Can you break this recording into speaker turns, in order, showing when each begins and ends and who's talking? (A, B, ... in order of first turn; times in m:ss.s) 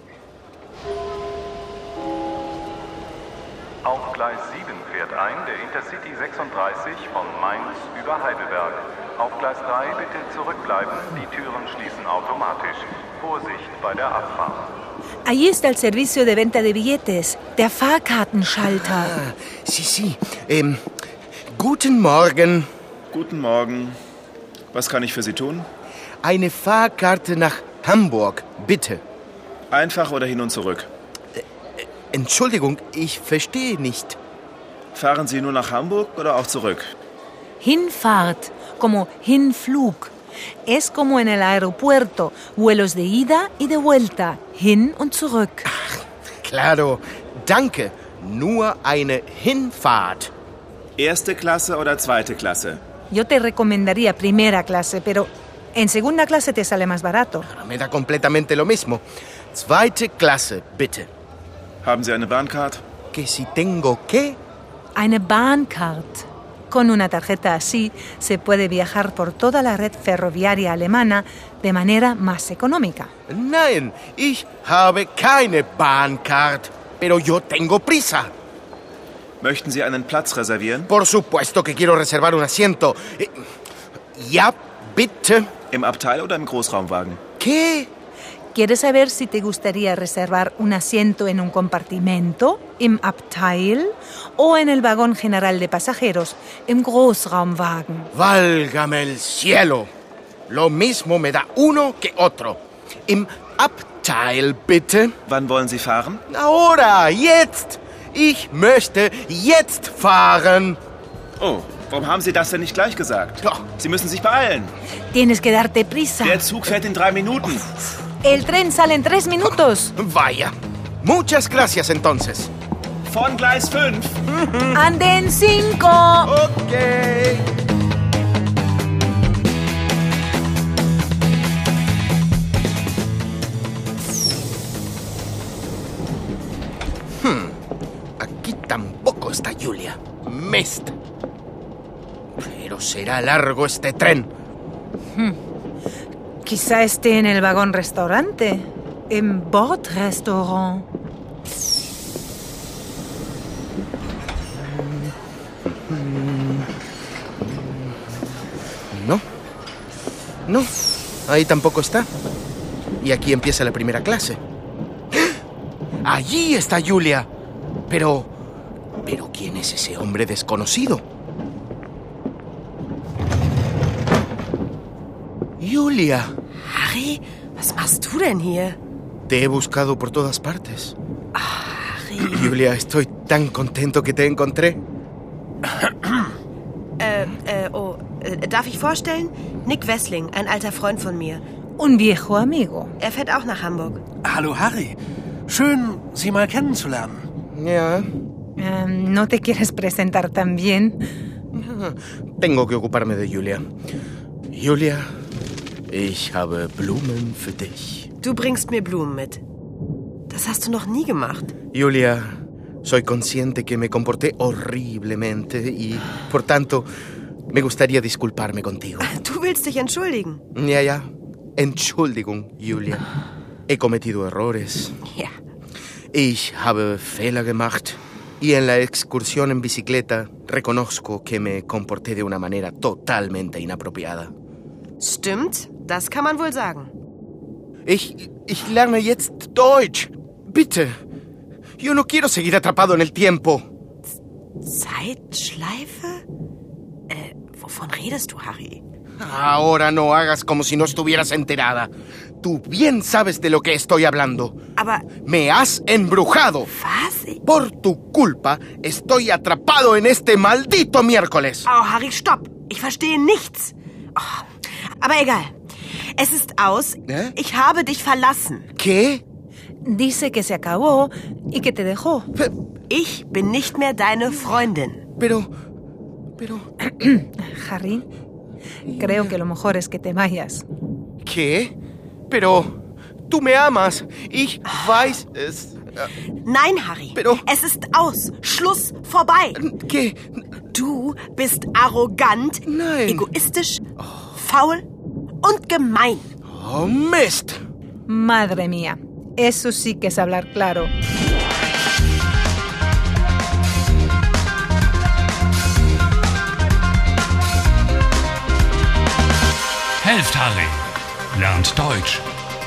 0:03.8-0:14.6 A
0:15.2-0:19.2 B
0:18.6-0:20.8 C
0:21.5-0:22.7 C
0:23.1-0:24.0 D
0:24.7-0:25.7 D
0:26.2-0:29.0 C
0:29.7-0:30.9 D
0:32.1-0:34.2 C
0:34.9-0:36.9 D
0:37.6-0:40.1 B
0:40.6-0:45.7 B
0:45.7-0:50.3 C
0:51.0-0:52.8 D
0:53.1-0:57.5 B
0:57.4-1:01.1 C
1:01.8-1:02.8 D
1:03.1-1:04.4 C
1:04.9-1:13.1 B
1:13.3-1:18.3 C
1:19.4-1:20.9 D
1:20.9-1:23.4 C
1:24.1-1:25.5 C
1:25.7-1:27.2 D
1:27.4-1:27.9 C
1:28.5-1:38.1 B
1:38.1-1:39.9 C
1:40.5-1:45.1 C
1:45.3-1:46.2 D
1:46.3-1:50.8 C
1:51.4-1:54.7 D
1:53.4-1:53.7 C
1:55.1-1:56.5 B
1:56.3-1:57.7 D
1:58.2-1:59.9 B
1:59.5-2:02.5 C
2:03.1-2:04.2 D
2:04.3-2:04.8 C
2:04.7-2:06.3 B
2:06.2-2:07.4 C
2:17.2-2:17.6 C
2:18.2-2:21.0 C
2:22.4-2:24.3 C
2:26.4-2:30.8 B
2:35.7-2:36.7 C
2:38.9-2:39.2 C
2:40.5-2:40.7 C
2:41.3-2:42.1 C
2:43.0-2:44.4 C
2:46.0-2:47.3 C
2:47.9-2:48.3 C
2:49.0-2:51.0 C
2:55.6-2:56.3 C
2:56.7-2:58.8 E
2:59.3-3:00.9 C
3:01.3-3:02.5 E
3:02.3-3:04.8 C
3:07.0-3:11.4 E
3:11.8-3:12.9 B
3:13.0-3:14.0 E
3:14.2-3:15.0 F
3:15.5-3:17.2 F
3:17.5-3:18.1 C
3:18.6-3:21.0 B
3:21.5-3:23.6 C
3:24.5-3:25.1 C
3:25.9-3:28.1 C
3:28.2-3:29.4 E
3:30.3-3:31.5 E
3:31.7-3:36.9 C
3:37.5-3:39.1 C
3:39.0-3:40.4 E
3:40.5-3:43.0 C
3:43.7-3:45.0 C
3:46.1-3:54.3 C
3:55.0-3:56.9 E
3:57.8-4:01.0 C
4:01.8-4:03.7 C
4:04.6-4:06.2 E
4:07.1-4:08.8 E
4:09.2-4:14.6 C
4:14.8-4:15.1 E
4:15.2-4:16.7 C
4:16.7-4:17.4 E
4:17.4-4:21.7 C
4:21.6-4:25.6 E
4:26.2-4:28.7 E
4:27.1-4:27.3 C
4:28.8-4:29.2 C
4:29.8-4:32.3 B
4:32.9-4:35.0 E
4:35.2-4:35.5 C
4:36.4-4:36.7 C
4:37.0-4:38.1 B
4:38.9-4:39.3 C
4:38.9-4:40.6 B
4:41.2-4:41.7 C
4:42.3-4:42.8 C
4:43.3-4:46.1 C
4:46.4-4:49.6 E
4:47.1-4:47.4 C
4:49.6-4:50.2 C
4:50.7-4:54.8 E
4:52.6-4:53.3 C
4:54.0-4:54.3 C
4:55.4-4:56.3 E
4:56.5-4:57.6 C
4:58.1-5:00.9 B
5:10.0-5:12.3 G